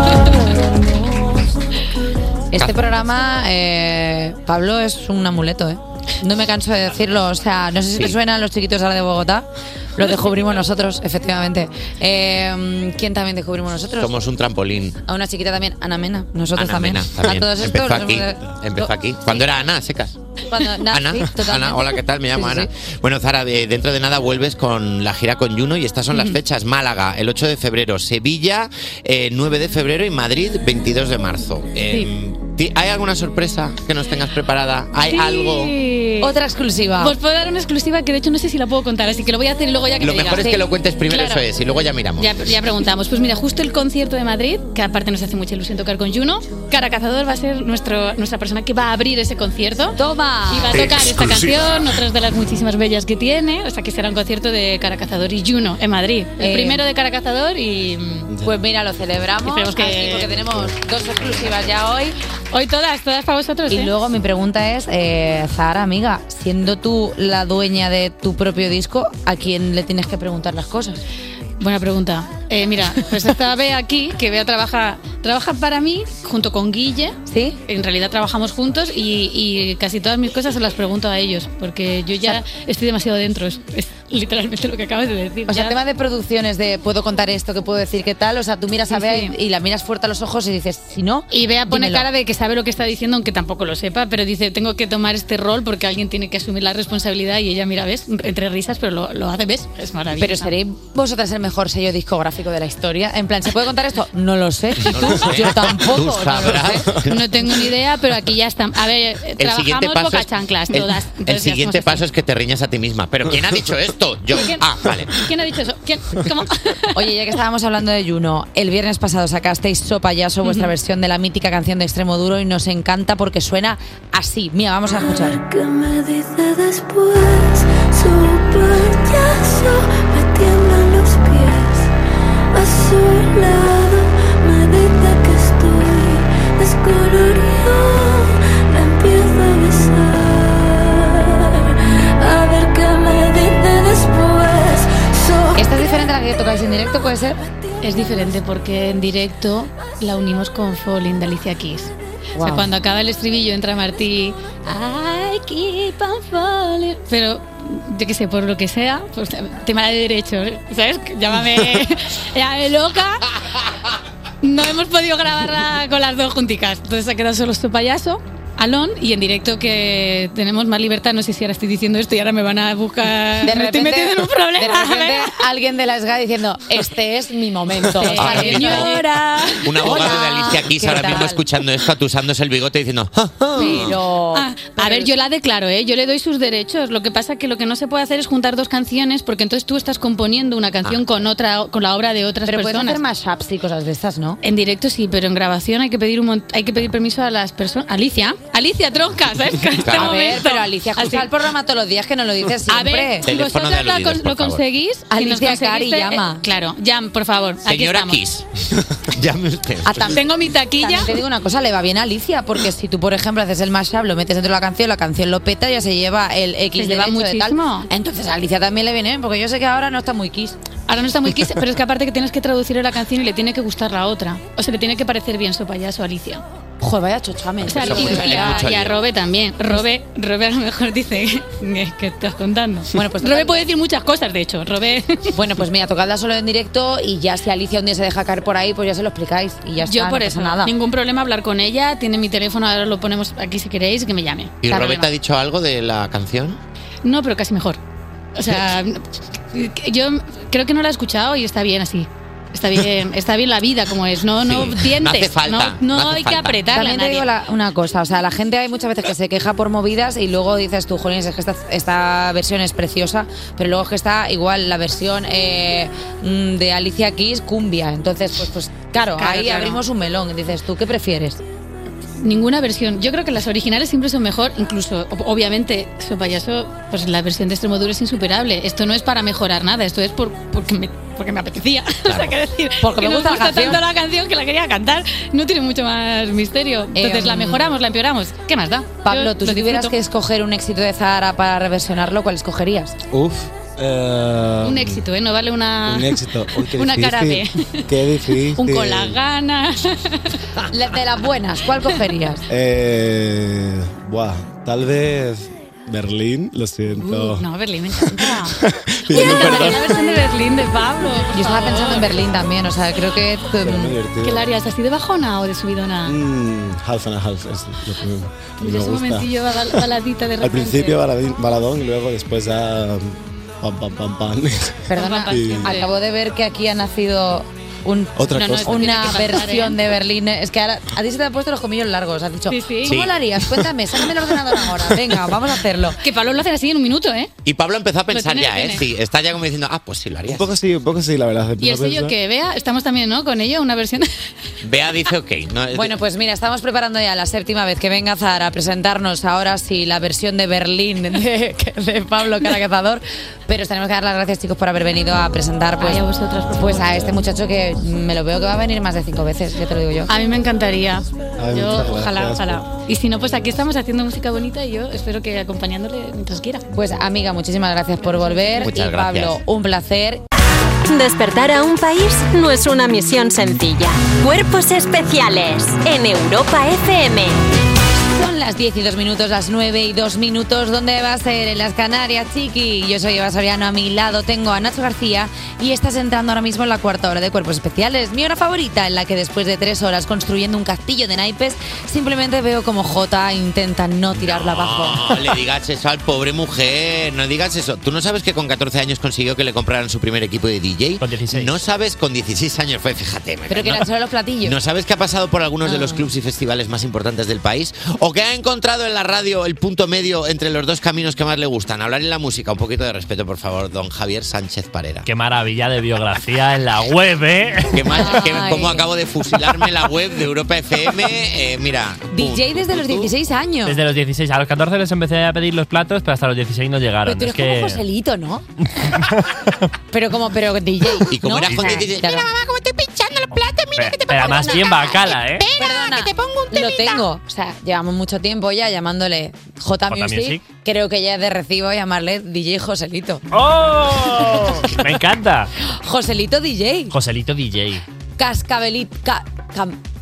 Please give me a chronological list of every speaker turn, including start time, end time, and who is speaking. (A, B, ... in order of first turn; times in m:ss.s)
0:02.5-0:14.2 A
0:14.0-0:15.0 B
0:15.0-0:19.4 A
0:16.6-0:20.2 B
0:20.5-0:22.7 A
0:20.9-0:35.7 B
0:35.0-0:36.4 C
0:36.2-0:37.2 A
0:37.0-0:41.4 C
0:40.0-0:42.3 B
0:40.4-0:40.7 A
0:42.2-0:58.3 C
0:49.9-0:51.2 A
0:56.4-0:56.8 A
0:58.3-0:58.6 D
0:58.4-1:02.2 A
0:59.4-1:00.4 C
1:00.3-1:00.7 D
1:02.5-1:03.9 C
1:03.7-1:11.0 A
1:11.6-1:25.8 C
1:17.3-1:17.6 A
1:25.5-1:32.1 A
1:28.9-1:29.4 C
1:31.3-1:40.5 C
1:40.1-1:46.9 A
1:44.8-1:47.2 B
1:47.0-1:52.0 C
1:49.4-1:55.1 B
1:54.3-1:57.1 C
1:56.9-2:05.4 A
2:00.4-2:00.7 C
2:04.9-2:11.9 E
2:12.5-2:26.2 E
2:25.6-2:27.4 A
2:27.8-2:43.3 C
2:32.4-2:32.7 A
2:44.4-2:55.4 C
2:53.4-3:01.5 A
2:57.8-3:00.5 C
2:58.1-2:58.9 B
2:59.6-3:04.0 B
3:03.5-3:05.1 A
3:03.6-3:13.0 C
3:12.4-3:14.4 A
3:14.4-3:21.3 C
3:19.8-3:20.2 B
3:19.8-3:23.3 A
3:22.7-3:28.2 C
3:23.2-3:24.6 B
3:25.1-3:26.4 A
3:27.6-3:28.5 B
3:29.1-3:30.2 B
3:29.8-3:40.6 A
3:30.1-3:31.2 C
3:36.8-3:37.9 C
3:40.9-3:46.4 C
3:46.8-3:48.9 A
3:47.6-3:49.0 B
3:47.6-3:55.3 C
3:52.9-3:53.6 A
3:55.3-4:00.7 A
3:59.8-4:05.1 C
4:04.6-4:06.6 B
4:07.0-4:07.8 C
4:08.4-4:17.3 C
4:14.4-4:16.6 B
4:16.7-4:31.4 A
4:29.2-4:29.8 C
4:32.2-4:50.0 C
4:42.1-4:42.3 B
4:42.8-4:43.8 A
4:47.0-4:47.7 A
4:49.0-4:53.0 A
4:53.1-4:55.0 D
4:54.6-4:58.0 C
4:55.8-4:59.2 D
4:58.6-5:00.4 C
5:00.7-5:02.4 A
5:02.5-5:07.4 D
5:07.0-5:08.6 C
5:08.0-5:10.0 D
5:09.1-5:12.2 C
5:11.3-5:14.0 A
5:13.6-5:14.5 D
5:14.2-5:16.2 C
5:16.1-5:25.7 D
5:18.6-5:21.0 C
5:24.9-5:36.0 A
5:24.9-5:25.9 C
5:28.2-5:29.1 D
5:28.3-5:29.8 C
5:32.5-5:33.0 C
5:32.9-5:33.2 B
5:36.0-5:37.3 C
5:37.4-5:40.5 B
5:38.1-5:38.9 C
5:40.3-5:42.2 D
5:41.6-5:44.1 C
5:44.6-5:46.0 B
5:45.7-6:00.1 A
5:55.8-5:57.1 C
6:00.1-6:06.6 C
6:01.4-6:02.7 D
6:06.7-6:10.2 A
6:08.6-6:09.4 B
6:10.9-6:17.4 F
6:18.0-6:35.2 A
6:34.2-6:43.9 B
6:41.0-6:41.6 G
6:43.5-6:44.6 A
6:44.4-6:55.1 B
6:45.6-6:46.1 A
6:55.0-6:58.1 G
6:57.7-7:03.1 B
6:57.9-6:58.9 A
7:02.1-7:03.8 A
7:03.7-7:07.8 G
7:07.0-7:08.4 A
7:08.8-7:09.4 G
7:09.9-7:12.3 A
7:11.1-7:14.5 B
7:13.8-7:15.5 G
7:14.3-7:14.7 A
7:15.5-7:23.2 A
7:19.9-7:20.4 G
7:23.3-7:25.5 G
7:25.6-7:27.0 A
7:26.9-7:27.8 G
7:28.2-7:29.8 A